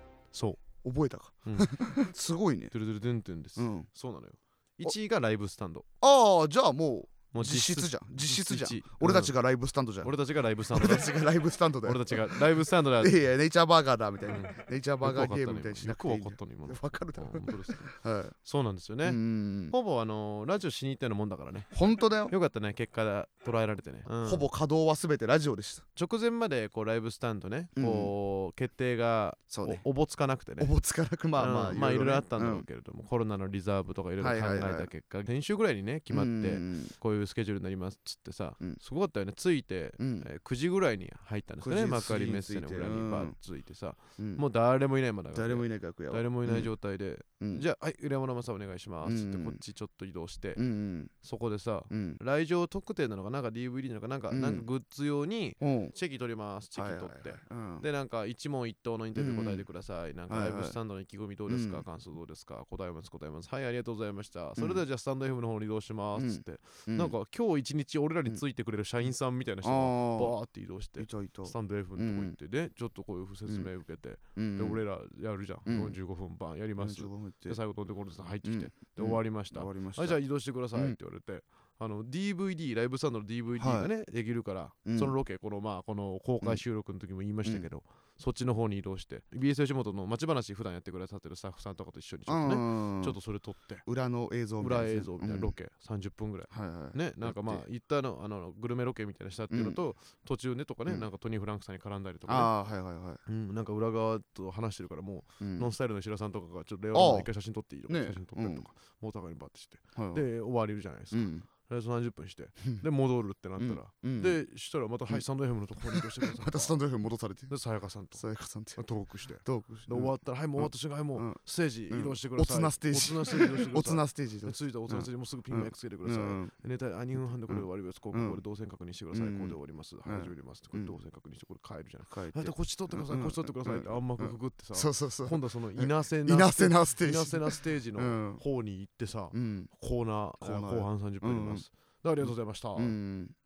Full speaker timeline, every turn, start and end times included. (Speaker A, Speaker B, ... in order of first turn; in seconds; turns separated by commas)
Speaker A: 0.3-0.6, Speaker B: 0.8-2.7, Speaker A: 1.4-1.7, Speaker A: 2.7-5.8, Speaker B: 3.6-3.9, Speaker B: 6.0-10.1, Speaker A: 7.3-9.3, Speaker A: 10.0-11.1, Speaker B: 10.7-12.4, Speaker A: 11.8-13.2, Speaker B: 13.0-18.3, Speaker A: 14.3-17.9, Speaker A: 18.4-21.7, Speaker B: 19.0-19.7, Speaker B: 21.7-22.3, Speaker A: 22.3-24.5, Speaker B: 24.2-25.8, Speaker A: 25.9-30.7, Speaker B: 27.8-28.1, Speaker B: 29.5-29.8, Speaker B: 30.6-32.6, Speaker A: 31.4-50.6, Speaker B: 34.2-34.9, Speaker B: 36.1-36.9, Speaker B: 40.0-40.3, Speaker B: 41.6-43.4, Speaker B: 45.3-46.7, Speaker B: 49.0-49.6, Speaker B: 50.5-51.1, Speaker A: 51.2-93.8, Speaker B: 51.9-52.2, Speaker B: 54.3-54.6, Speaker B: 55.6-55.9, Speaker B: 56.7-57.8, Speaker B: 59.1-59.6, Speaker B: 60.3-60.8, Speaker B: 61.5-61.8, Speaker B: 64.6-64.8, Speaker B: 66.2-67.1, Speaker B: 69.6-70.3, Speaker B: 71.0-72.3, Speaker B: 74.3-74.8, Speaker B: 75.7-76.0, Speaker B: 76.8-77.6, Speaker B: 78.4-80.2, Speaker B: 83.6-83.9, Speaker B: 84.8-85.1, Speaker B: 92.3-93.2, Speaker B: 93.8-95.5, Speaker A: 94.6-102.5, Speaker B: 96.5-97.6, Speaker B: 99.5-99.8, Speaker B: 102.3-103.2, Speaker A: 103.2-116.8, Speaker B: 105.4-105.7, Speaker B: 106.9-107.3, Speaker B: 107.9-108.7, Speaker B: 110.0-110.2, Speaker B: 111.1-111.5, Speaker B: 113.6-114.4, Speaker B: 115.8-117.5, Speaker A: 117.5-118.2, Speaker B: 118.1-118.8, Speaker A: 118.8-143.0, Speaker B: 119.4-126.5, Speaker B: 127.5-128.4, Speaker B: 129.1-130.9, Speaker B: 132.1-138.4, Speaker B: 139.3-139.7, Speaker B: 140.4-141.6, Speaker B: 142.2-143.3